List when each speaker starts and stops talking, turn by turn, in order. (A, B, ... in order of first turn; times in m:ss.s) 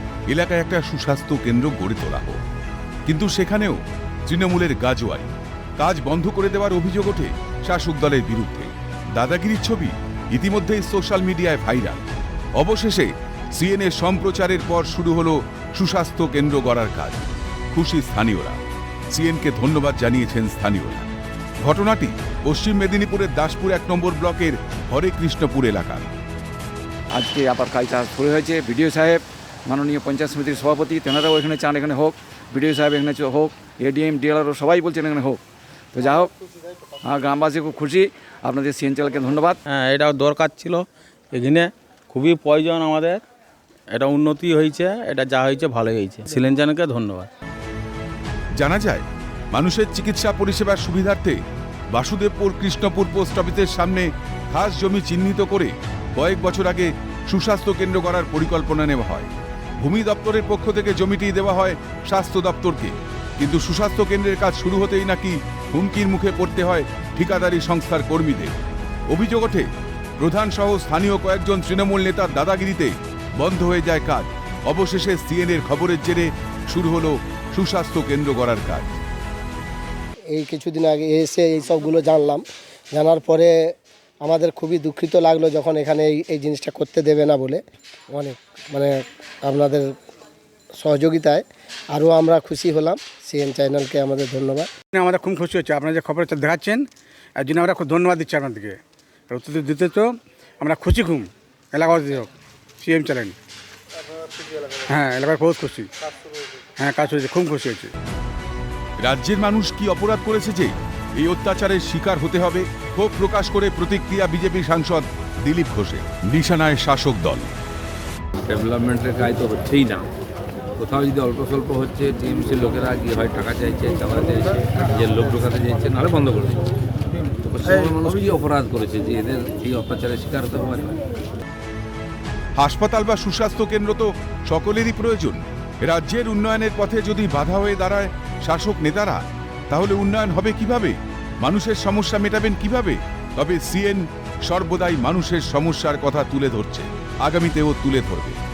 0:00.3-0:02.4 A
0:03.1-0:12.0 A
0:12.6-0:18.6 A
0:19.1-0:21.1 A
0:21.6-0:26.1 A
0:27.1-0:35.4 B
0:35.9-0:36.3 B
0:37.0-0:39.6 B
0:39.7-0:43.2 C
0:43.9-0:47.3 C
0:48.6-0:51.4 A
0:51.9-1:08.5 A
1:09.1-1:19.0 A
1:20.3-1:30.0 D
1:30.8-1:34.7 D
1:34.9-1:36.8 E
1:37.4-1:38.8 E
1:39.3-1:42.3 E
1:42.8-1:43.4 E
1:44.6-1:45.9 E
1:46.8-1:47.9 E
1:49.0-1:57.5 A
1:58.4-2:00.1 F
2:00.8-2:06.7 F
2:07.4-2:11.0 F
2:12.6-2:28.4 A